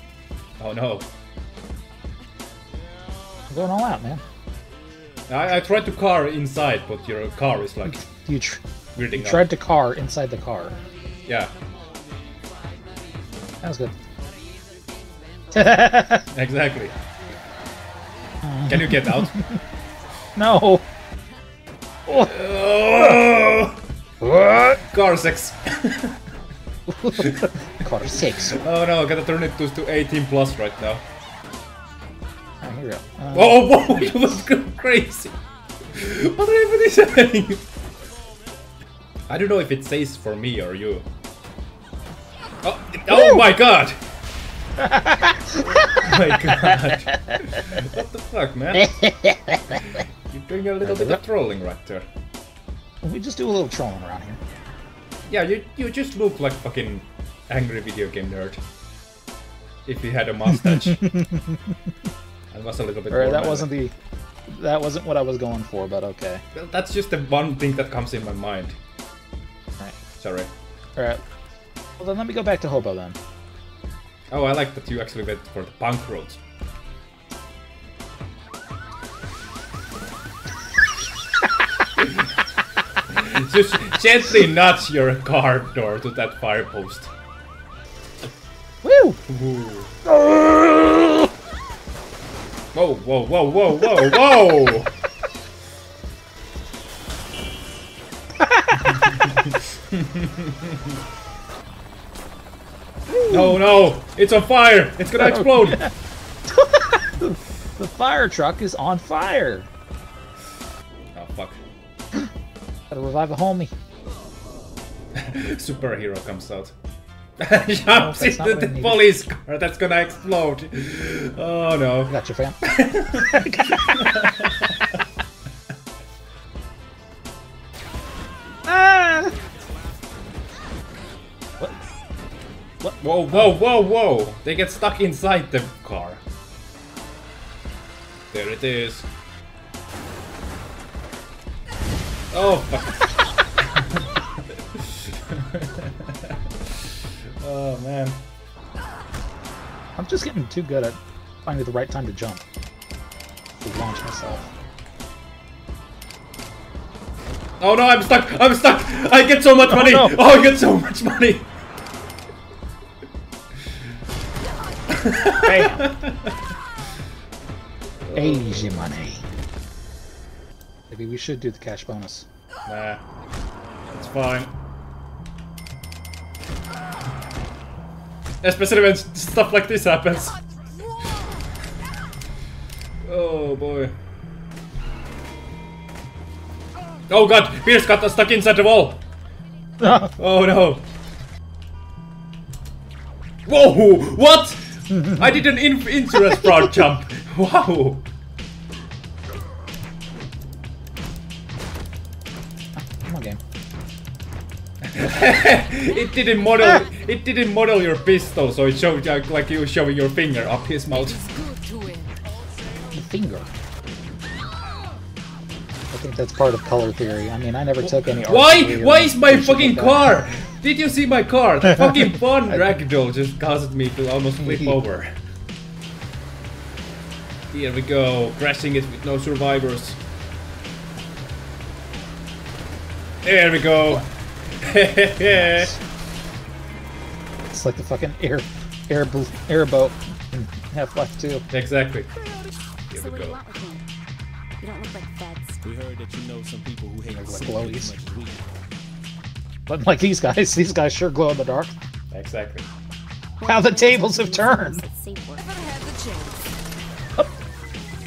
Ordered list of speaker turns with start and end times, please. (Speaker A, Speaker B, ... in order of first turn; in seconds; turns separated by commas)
Speaker A: 0.6-1.1, Speaker B: 3.5-4.2, Speaker A: 5.3-8.0, Speaker B: 7.9-8.6, Speaker A: 8.9-9.5, Speaker B: 9.1-10.7, Speaker C: 10.8-13.2, Speaker A: 11.3-11.5, Speaker B: 13.6-13.9, Speaker C: 14.2-15.9, Speaker B: 15.5-16.2, Speaker A: 16.3-16.9, Speaker B: 18.4-19.6, Speaker A: 18.7-19.3, Speaker B: 20.4-20.8, Speaker B: 22.1-22.3, Speaker A: 22.1-23.8, Speaker B: 24.2-24.8, Speaker A: 24.8-26.1, Speaker B: 26.9-28.6, Speaker A: 27.2-27.4, Speaker A: 28.6-31.0, Speaker B: 32.6-34.4, Speaker A: 33.3-35.3, Speaker A: 35.9-37.6, Speaker A: 39.3-41.1, Speaker A: 42.6-44.0, Speaker B: 43.1-43.5, Speaker B: 44.8-47.4, Speaker A: 45.7-48.9, Speaker B: 48.7-50.0, Speaker A: 50.3-52.0, Speaker B: 50.8-51.2, Speaker B: 53.0-54.4, Speaker A: 55.2-58.6, Speaker A: 59.9-61.0, Speaker B: 60.5-61.8, Speaker A: 62.5-63.7, Speaker B: 63.1-63.9, Speaker B: 64.5-66.4, Speaker A: 66.5-68.8, Speaker A: 70.2-70.5, Speaker B: 72.0-73.2, Speaker A: 74.3-76.4, Speaker A: 82.0-82.3, Speaker A: 83.1-87.1, Speaker B: 88.8-89.2, Speaker A: 89.3-89.9, Speaker B: 90.0-91.3, Speaker A: 92.7-94.9, Speaker B: 98.4-99.2, Speaker A: 99.0-100.8, Speaker B: 103.1-103.6, Speaker A: 103.3-105.8, Speaker B: 105.2-105.9, Speaker B: 106.5-109.7, Speaker A: 111.1-111.6, Speaker B: 112.9-113.7, Speaker A: 115.2-116.7, Speaker A: 117.4-124.9, Speaker B: 117.9-119.2, Speaker B: 122.1-124.3, Speaker B: 128.7-129.3, Speaker B: 132.8-133.5, Speaker A: 133.0-136.2, Speaker A: 138.3-139.1, Speaker A: 142.3-146.5, Speaker A: 147.4-148.2, Speaker B: 150.0-152.4, Speaker B: 153.6-154.5, Speaker A: 157.6-161.5, Speaker B: 159.6-160.2, Speaker A: 164.9-166.3, Speaker B: 165.4-165.9, Speaker A: 168.0-168.8, Speaker B: 168.1-169.2, Speaker B: 170.9-172.3, Speaker A: 172.7-173.0, Speaker A: 173.9-174.5, Speaker A: 178.4-180.4, Speaker A: 183.0-183.9, Speaker A: 187.1-189.0, Speaker B: 189.8-190.1, Speaker A: 190.2-190.9, Speaker A: 193.4-198.1, Speaker B: 194.9-195.2, Speaker B: 202.9-203.4, Speaker A: 204.8-211.2, Speaker C: 205.8-206.7, Speaker C: 210.9-212.1, Speaker B: 212.9-213.5, Speaker B: 215.9-220.2, Speaker A: 217.8-225.1, Speaker B: 224.4-224.8, Speaker A: 227.5-230.0, Speaker A: 233.2-235.7, Speaker B: 235.3-235.8, Speaker B: 237.5-241.4, Speaker A: 241.5-242.1, Speaker A: 242.9-243.4, Speaker D: 242.9-243.8, Speaker D: 244.6-245.6, Speaker E: 245.6-248.5, Speaker B: 247.1-247.9, Speaker B: 249.7-251.7, Speaker A: 252.1-252.7, Speaker D: 253.4-255.5, Speaker B: 253.4-254.8, Speaker C: 255.4-256.6